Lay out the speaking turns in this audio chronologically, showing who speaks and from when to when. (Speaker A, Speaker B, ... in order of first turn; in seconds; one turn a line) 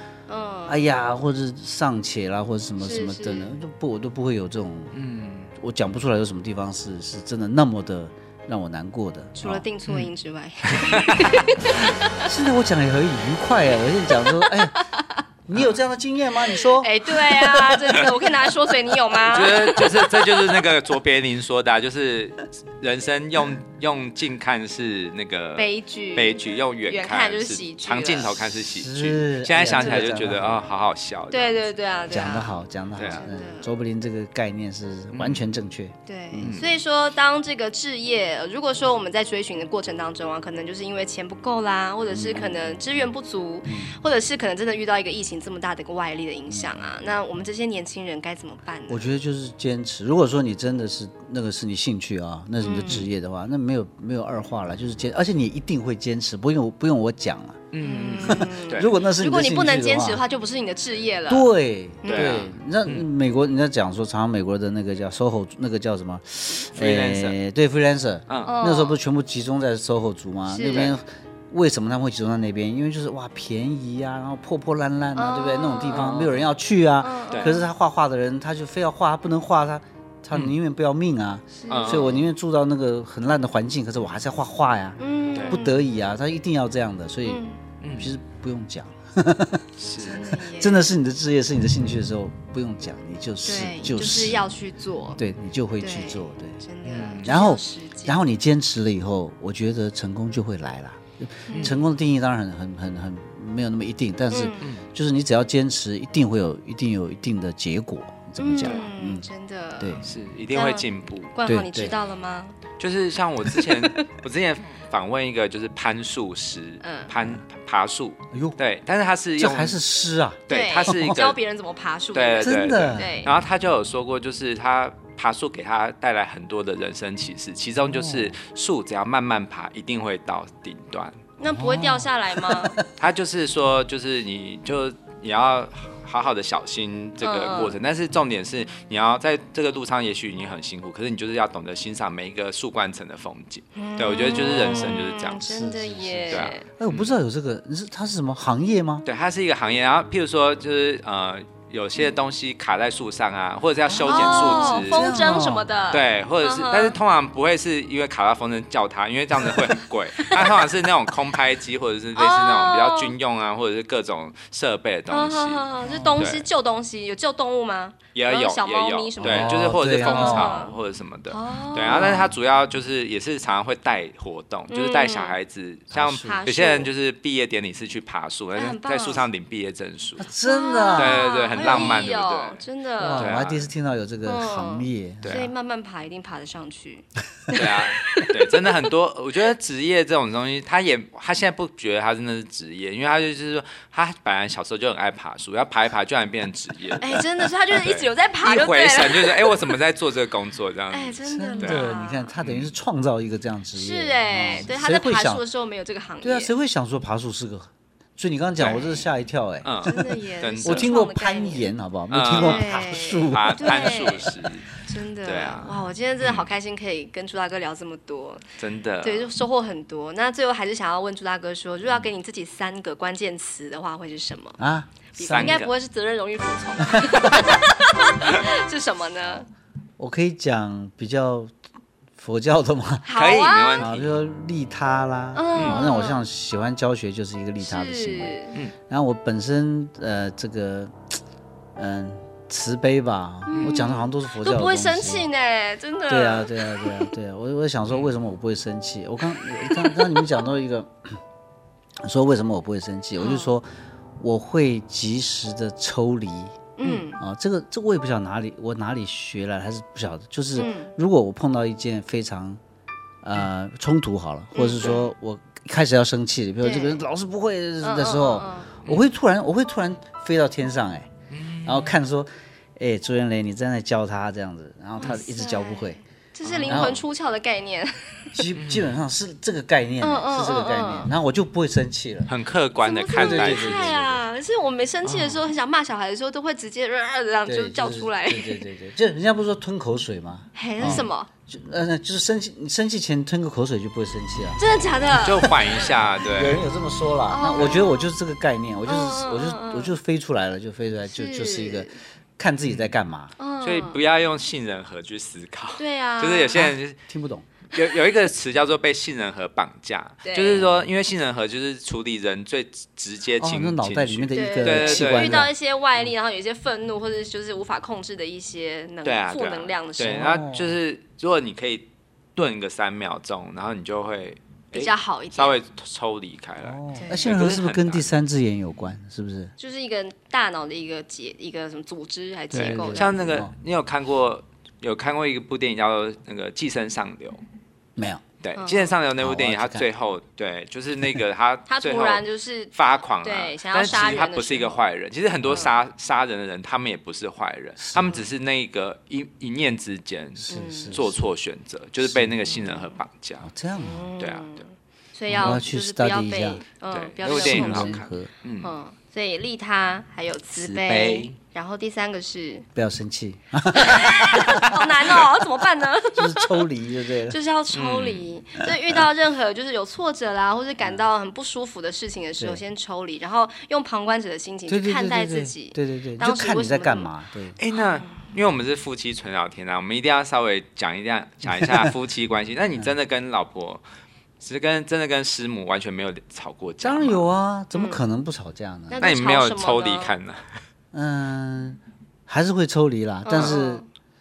Speaker A: 0.3-0.8
Speaker B: 0.7-5.0
Speaker A: 2.8-3.5
Speaker C: 4.9-5.5
Speaker B: 5.5-9.7
Speaker A: 9.4-12.3
Speaker C: 9.9-10.1
Speaker C: 10.7-11.9
Speaker B: 12.2-14.8
Speaker A: 14.2-15.2
Speaker B: 15.5-17.2
Speaker A: 16.5-20.6
Speaker C: 17.6-18.2
Speaker C: 19.3-31.6
Speaker A: 25.6-28.4
Speaker B: 28.6-30.6
Speaker A: 29.7-30.2
Speaker A: 31.3-33.7
Speaker B: 32.1-36.6
Speaker C: 33.0-33.3
Speaker C: 35.1-35.5
Speaker A: 36.1-49.1
Speaker C: 36.4-36.8
Speaker B: 42.1-42.8
Speaker B: 43.6-43.9
Speaker B: 46.5-46.8
Speaker B: 48.9-57.6
Speaker A: 52.6-53.1
Speaker C: 57.7-58.9
Speaker A: 57.8-61.5
Speaker B: 58.2-60.2
Speaker B: 61.3-87.4
Speaker A: 62.0-62.5
Speaker C: 62.1-63.0
Speaker C: 66.7-67.4
Speaker C: 68.3-68.5
Speaker A: 68.5-69.0
Speaker A: 70.5-70.9
Speaker C: 70.7-71.0
Speaker A: 75.2-76.2
Speaker C: 75.9-76.4
Speaker A: 77.0-77.7
Speaker C: 77.3-77.6
Speaker A: 81.6-82.2
Speaker C: 81.7-82.2
Speaker A: 85.0-85.8
Speaker A: 87.2-87.6
Speaker C: 87.8-88.1
Speaker B: 88.0-89.7
Speaker C: 89.8-90.3
Speaker A: 90.0-91.0
Speaker B: 90.5-94.5
Speaker A: 93.4-95.2
Speaker B: 95.2-96.6
Speaker A: 95.8-98.3
Speaker C: 96.8-97.3
Speaker B: 97.2-109.3
Speaker A: 101.5-101.8
Speaker A: 104.3-104.7
Speaker C: 104.6-104.8
Speaker A: 108.4-110.0
Speaker B: 109.8-110.0
Speaker C: 110.0-111.4
Speaker A: 110.5-112.6
Speaker B: 111.5-112.0
Speaker C: 112.8-119.8
Speaker A: 113.6-114.1
Speaker A: 116.8-117.1
Speaker B: 118.3-118.6
Speaker B: 119.4-121.2
Speaker C: 120.5-121.4
Speaker A: 120.5-123.3
Speaker C: 122.1-131.2
Speaker B: 122.4-123.1
Speaker B: 127.9-128.4
Speaker A: 131.4-132.8
Speaker B: 131.5-132.9
Speaker C: 133.0-145.5
Speaker A: 137.2-137.8
Speaker A: 143.8-146.7
Speaker B: 145.4-149.1
Speaker C: 146.3-147.1
Speaker C: 149.1-155.3
Speaker B: 153.9-155.7
Speaker A: 154.0-157.0
Speaker C: 155.9-166.5
Speaker A: 160.2-160.6
Speaker A: 162.2-163.1
Speaker A: 165.1-170.8
Speaker B: 165.9-166.2
Speaker C: 168.2-180.3
Speaker B: 169.2-170.5
Speaker A: 171.3-172.2
Speaker B: 171.9-172.3
Speaker A: 174.7-175.4
Speaker B: 175.9-176.4
Speaker A: 176.2-176.9
Speaker A: 178.6-179.3
Speaker B: 180.2-182.0
Speaker A: 180.4-183.4
Speaker C: 180.9-183.7
Speaker B: 183.0-185.4
Speaker A: 184.2-188.4
Speaker C: 185.2-185.5
Speaker B: 187.5-188.2
Speaker C: 187.5-201.9
Speaker A: 197.0-199.8
Speaker A: 200.9-202.3
Speaker B: 201.2-205.4
Speaker C: 202.4-202.7
Speaker A: 203.8-206.5
Speaker B: 206.2-210.0
Speaker A: 208.6-209.1
Speaker C: 209.6-210.9
Speaker A: 209.8-211.7
Speaker B: 210.6-214.1
Speaker C: 212.1-214.7
Speaker A: 212.3-218.4
Speaker C: 215.2-216.5
Speaker C: 218.6-219.3
Speaker A: 219.0-224.6
Speaker B: 224.6-225.6
Speaker A: 225.2-229.5
Speaker C: 225.3-225.7
Speaker B: 226.9-227.5
Speaker B: 230.0-231.6
Speaker B: 232.2-233.1
Speaker A: 233.1-233.9
Speaker C: 233.1-234.2
Speaker B: 233.8-238.4
Speaker A: 235.3-236.2
Speaker A: 237.6-238.6
Speaker B: 238.9-241.0
Speaker B: 241.8-245.3
Speaker A: 243.5-247.1
Speaker C: 243.6-243.8
Speaker B: 246.1-251.2
Speaker A: 249.7-250.2
Speaker B: 252.0-253.7
Speaker A: 253.2-253.5
Speaker B: 254.2-256.6
Speaker A: 256.8-257.2
Speaker B: 257.2-262.6
Speaker A: 260.6-260.9
Speaker B: 263.2-271.1
Speaker A: 264.6-265.1
Speaker A: 266.6-267.0
Speaker A: 267.8-268.7
Speaker C: 271.3-271.9
Speaker B: 271.6-276.0
Speaker A: 275.0-278.4
Speaker C: 276.4-277.0
Speaker B: 276.7-277.0
Speaker B: 278.3-282.3
Speaker C: 278.6-278.9
Speaker A: 280.0-281.1
Speaker C: 282.3-284.0
Speaker A: 282.8-288.6
Speaker B: 283.1-284.2
Speaker C: 285.0-285.5
Speaker B: 287.5-294.6
Speaker A: 290.6-291.3
Speaker C: 290.8-291.1
Speaker A: 294.6-295.9
Speaker C: 295.1-296.6
Speaker B: 296.3-303.4
Speaker A: 297.3-298.1
Speaker A: 298.9-300.0
Speaker A: 301.1-302.0
Speaker A: 303.4-304.0
Speaker C: 303.6-307.0
Speaker A: 305.8-306.7
Speaker B: 306.5-307.5
Speaker C: 307.7-315.5
Speaker A: 310.2-310.6
Speaker B: 310.6-310.8
Speaker B: 313.4-315.5
Speaker A: 314.3-320.3
Speaker C: 319.0-328.1
Speaker B: 320.0-320.8
Speaker A: 324.7-325.6
Speaker B: 326.6-329.5
Speaker A: 326.9-327.3
Speaker A: 329.6-333.2
Speaker B: 332.5-333.5
Speaker C: 332.5-337.4
Speaker B: 338.0-338.2
Speaker C: 338.4-353.5
Speaker A: 338.6-339.0
Speaker B: 339.2-339.9
Speaker A: 341.7-344.8
Speaker B: 343.9-344.2
Speaker B: 347.8-348.2
Speaker B: 350.4-351.2
Speaker A: 350.5-351.0
Speaker A: 352.5-353.0
Speaker B: 353.4-354.1
Speaker A: 353.8-358.0
Speaker C: 354.2-354.6
Speaker C: 355.3-355.6
Speaker B: 355.3-356.6
Speaker C: 356.9-358.7
Speaker B: 357.3-358.3
Speaker A: 358.6-362.7
Speaker C: 360.6-361.4
Speaker B: 362.8-365.3
Speaker A: 363.8-366.7
Speaker B: 366.1-367.4
Speaker A: 367.3-377.1
Speaker C: 367.7-368.3
Speaker B: 374.7-377.6
Speaker C: 377.6-383.8
Speaker A: 377.9-378.3
Speaker B: 381.5-381.9
Speaker C: 384.4-387.3
Speaker B: 386.8-389.1
Speaker A: 387.7-388.0
Speaker A: 388.9-390.1
Speaker C: 389.0-390.6
Speaker B: 390.9-393.8
Speaker A: 393.2-393.9